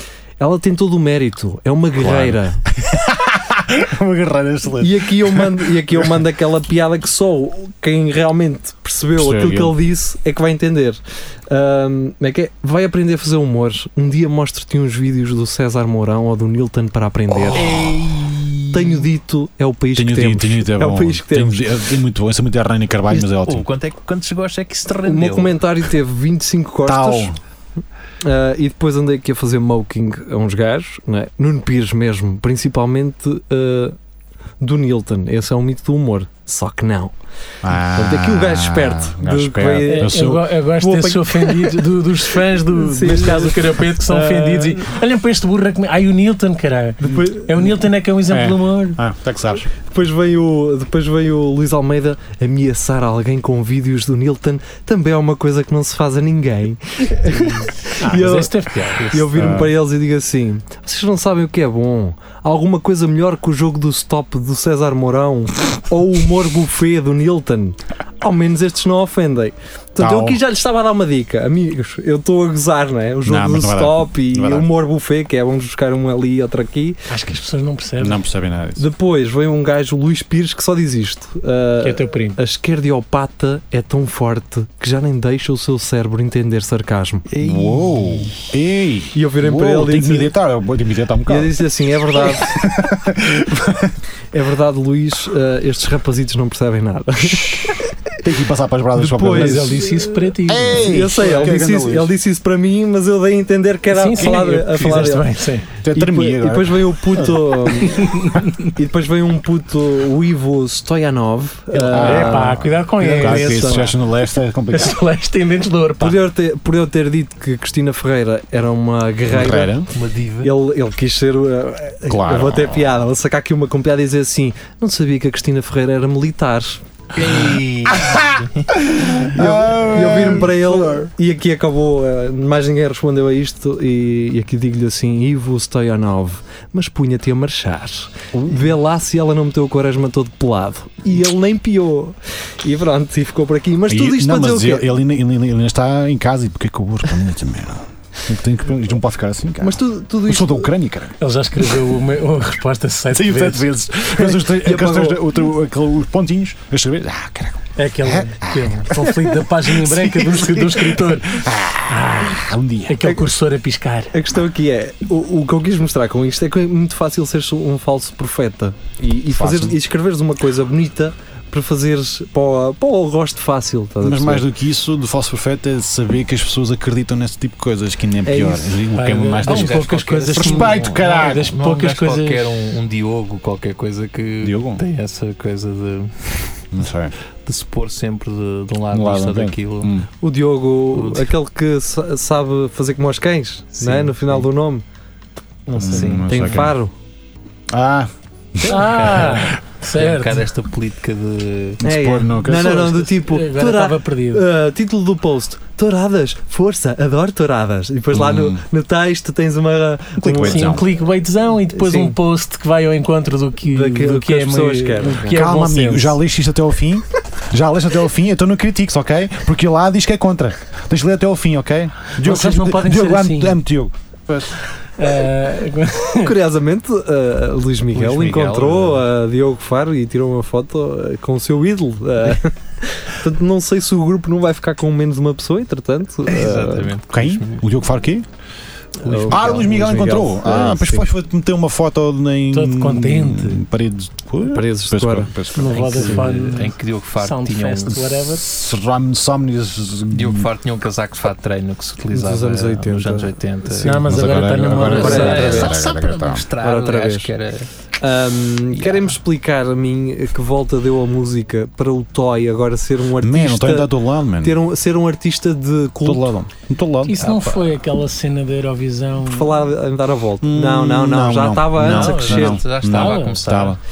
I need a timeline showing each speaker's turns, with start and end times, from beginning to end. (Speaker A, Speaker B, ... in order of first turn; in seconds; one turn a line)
Speaker A: 0.4-2.6
Speaker B: 1.9-6.1
Speaker A: 4.8-17.8
Speaker B: 9.1-9.8
Speaker C: 17.5-19.1
Speaker A: 18.7-21.6
Speaker B: 19.9-23.7
Speaker C: 23.1-25.6
Speaker A: 25.0-27.3
Speaker B: 26.9-27.4
Speaker A: 28.2-34.0
Speaker A: 34.6-37.2
Speaker B: 37.6-40.5
Speaker A: 37.7-41.9
Speaker D: 39.9-49.0
Speaker A: 42.7-44.9
Speaker A: 47.0-47.7
Speaker B: 48.3-49.7
Speaker A: 49.9-77.0
Speaker C: 57.3-57.7
Speaker D: 58.0-59.1
Speaker B: 59.3-59.8
Speaker B: 70.0-70.4
Speaker B: 73.2-74.7
Speaker D: 77.1-78.2
Speaker B: 78.0-78.8
Speaker A: 78.8-87.3
Speaker D: 81.8-82.4
Speaker C: 87.3-88.4
Speaker B: 87.4-91.6
Speaker A: 89.1-90.3
Speaker A: 91.3-92.5
Speaker B: 92.1-93.9
Speaker A: 94.3-98.0
Speaker B: 98.2-99.9
Speaker A: 99.0-105.3
Speaker D: 99.3-101.5
Speaker B: 100.5-102.1
Speaker D: 103.9-105.7
Speaker B: 104.1-104.6
Speaker B: 105.8-107.9
Speaker A: 105.9-113.9
Speaker D: 108.0-108.4
Speaker D: 111.7-114.0
Speaker B: 111.9-115.0
Speaker D: 114.7-116.2
Speaker A: 116.0-119.8
Speaker B: 119.3-119.9
Speaker C: 119.9-120.5
Speaker A: 120.4-126.8
Speaker B: 122.1-122.9
Speaker C: 127.2-128.7
Speaker B: 127.2-131.1
Speaker A: 129.3-144.9
Speaker B: 138.3-138.7
Speaker B: 143.9-151.2
Speaker A: 149.6-150.7
Speaker D: 151.2-153.7
Speaker B: 153.1-163.1
Speaker A: 154.3-155.2
Speaker D: 157.8-164.1
Speaker A: 163.0-163.3
Speaker A: 164.1-174.5
Speaker B: 169.3-169.8
Speaker B: 174.0-181.5
Speaker D: 178.3-182.5
Speaker C: 179.4-186.6
Speaker B: 184.4-184.8
Speaker B: 186.7-187.1
Speaker C: 187.4-190.0
Speaker B: 188.9-190.1
Speaker A: 190.2-194.8
Speaker C: 190.9-191.3
Speaker C: 193.8-194.4
Speaker D: 195.7-196.2
Speaker B: 195.8-196.8
Speaker C: 195.9-196.6
Speaker A: 196.3-196.9
Speaker B: 197.7-199.4
Speaker C: 198.6-201.8
Speaker D: 198.7-200.4
Speaker B: 201.8-203.1
Speaker A: 201.8-210.9
Speaker D: 202.6-204.4
Speaker B: 208.1-208.6
Speaker B: 210.2-210.8
Speaker D: 210.4-216.2
Speaker A: 211.7-212.2
Speaker A: 213.6-215.4
Speaker B: 215.2-223.9
Speaker D: 222.2-223.6
Speaker D: 225.0-226.3
Speaker A: 226.2-236.9
Speaker C: 227.9-229.1
Speaker C: 236.3-237.7
Speaker B: 237.1-238.3
Speaker C: 239.0-239.6
Speaker A: 239.0-241.1
Speaker B: 239.3-246.2
Speaker D: 242.5-243.6
Speaker A: 244.4-246.5
Speaker D: 245.5-248.4
Speaker C: 245.8-248.2
Speaker B: 248.3-250.5
Speaker C: 250.1-254.0
Speaker A: 252.1-254.1
Speaker D: 253.8-255.7
Speaker B: 254.0-256.5
Speaker C: 254.8-257.7
Speaker A: 254.9-255.7
Speaker A: 256.6-257.3
Speaker A: 258.0-266.3
Speaker C: 258.8-259.1
Speaker B: 263.2-264.6
Speaker B: 266.0-267.2
Speaker D: 267.1-269.6
Speaker C: 267.2-267.7
Speaker A: 269.2-272.6
Speaker B: 270.4-273.8
Speaker C: 271.8-273.8
Speaker D: 272.9-273.4